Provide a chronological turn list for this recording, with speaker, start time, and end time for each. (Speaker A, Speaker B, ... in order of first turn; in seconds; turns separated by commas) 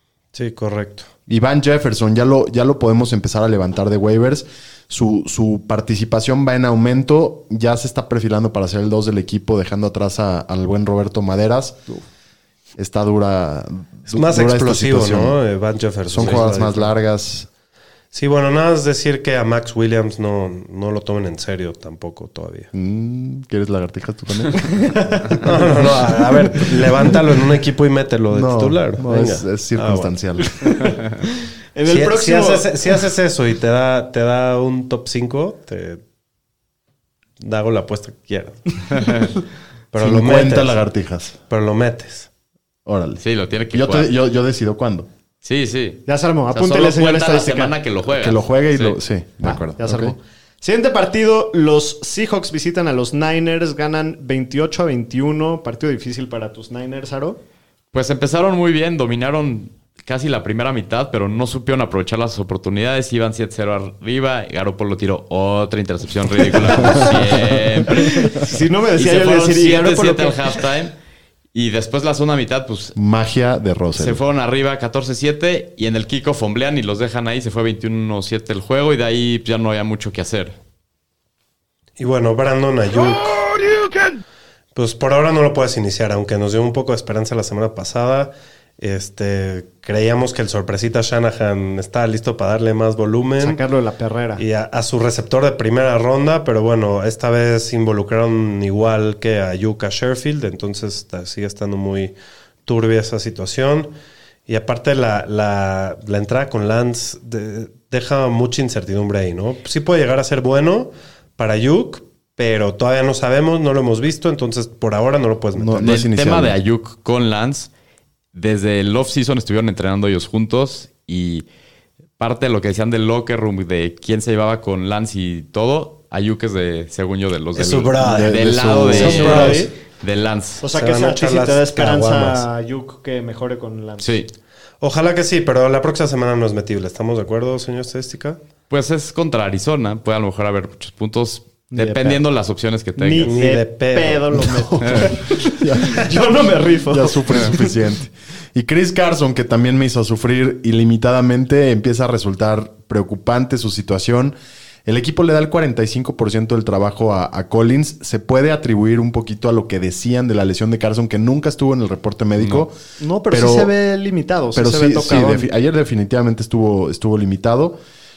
Speaker A: 0.3-1.1, Speaker B: 1.3-11.9, Speaker B: 12.8-15.4, Speaker A: 14.1-16.9, Speaker B: 16.1-17.5, Speaker C: 16.2-16.4, Speaker A: 18.1-22.7, Speaker B: 22.7-25.9, Speaker D: 24.7-25.4, Speaker A: 25.4-30.1, Speaker B: 28.3-30.5, Speaker D: 30.6-31.1, Speaker D: 31.7-32.8, Speaker A: 31.9-36.0, Speaker A: 37.4-38.9, Speaker C: 38.9-39.3, Speaker A: 39.9-40.8, Speaker B: 40.0-41.4, Speaker A: 41.5-42.3, Speaker B: 42.9-45.1, Speaker C: 43.2-44.1, Speaker C: 45.4-49.0, Speaker D: 46.1-47.8, Speaker B: 48.1-50.2, Speaker D: 49.4-57.4, Speaker C: 57.9-70.9, Speaker B: 66.8-67.6, Speaker D: 68.1-70.6, Speaker C: 71.5-73.0, Speaker B: 73.0-74.2, Speaker C: 74.0-80.5, Speaker A: 82.0-83.5, Speaker A: 84.7-93.6, Speaker D: 93.4-94.4, Speaker A: 94.4-103.9, Speaker A: 104.5-116.0, Speaker B: 115.5-116.6, Speaker C: 115.8-117.7, Speaker C: 118.3-121.5, Speaker C: 122.2-130.6, Speaker A: 127.5-129.7, Speaker B: 128.0-129.7, Speaker D: 129.1-129.7, Speaker D: 130.6-134.1, Speaker A: 130.7-132.4, Speaker C: 134.0-134.3, Speaker A: 134.8-138.4, Speaker C: 138.7-143.3, Speaker D: 141.7-142.2, Speaker D: 143.0-147.7, Speaker A: 143.2-144.5, Speaker B: 144.4-146.2, Speaker B: 146.9-162.8, Speaker C: 162.4-162.7, Speaker D: 163.0-165.5, Speaker B: 163.3-163.7, Speaker B: 164.5-167.8